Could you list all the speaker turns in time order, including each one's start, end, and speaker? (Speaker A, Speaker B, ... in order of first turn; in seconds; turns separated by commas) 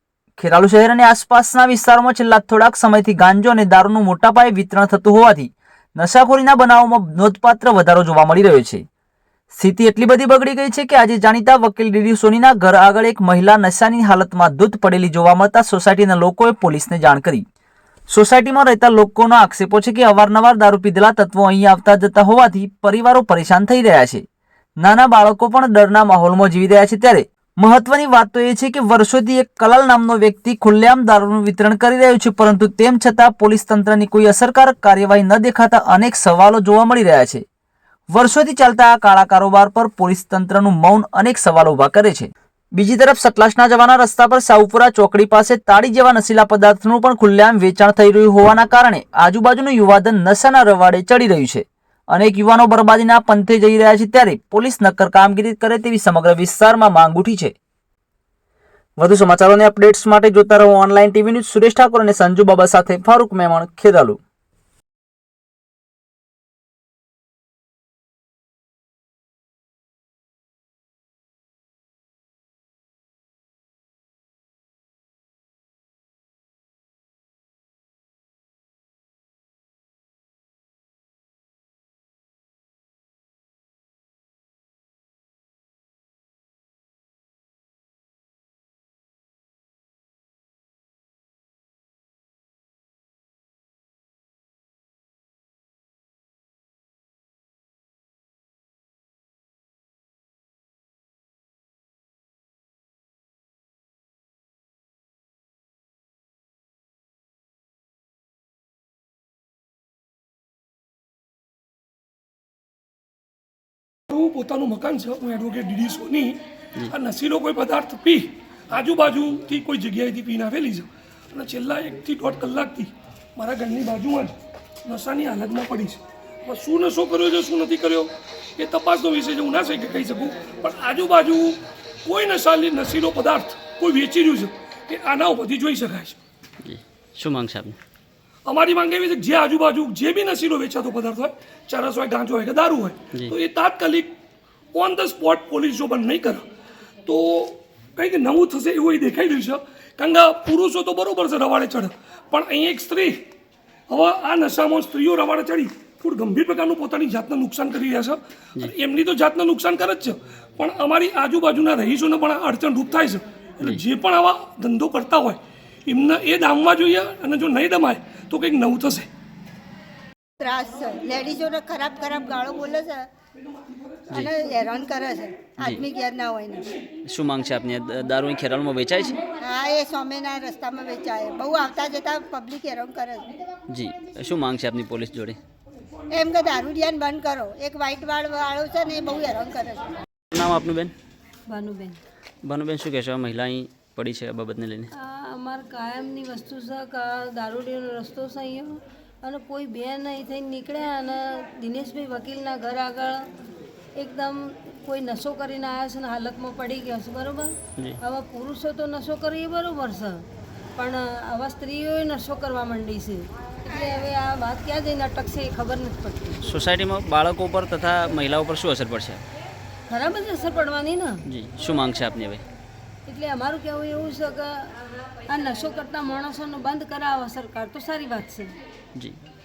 Speaker A: 0.4-8.8, Speaker A: 9.5-17.4, Speaker A: 18.1-24.2, Speaker A: 24.8-37.4, Speaker A: 38.1-57.5, Speaker A: 59.0-64.2, Speaker B: 114.1-136.2, Speaker C: 136.6-137.8, Speaker B: 138.4-144.1, Speaker B: 144.7-146.5, Speaker B: 147.0-153.3, Speaker B: 153.9-169.1, Speaker D: 170.4-173.1, Speaker D: 174.1-176.7, Speaker C: 177.0-179.2, Speaker D: 179.3-183.3, Speaker C: 183.7-185.4, Speaker D: 186.1-189.9, Speaker C: 190.3-190.9, Speaker E: 191.5-192.0, Speaker C: 192.4-194.9, Speaker E: 194.9-203.3, Speaker E: 203.9-210.2, Speaker E: 210.8-216.4, Speaker C: 216.4-219.2, Speaker E: 219.9-221.2, Speaker C: 221.2-222.4, Speaker E: 223.1-228.6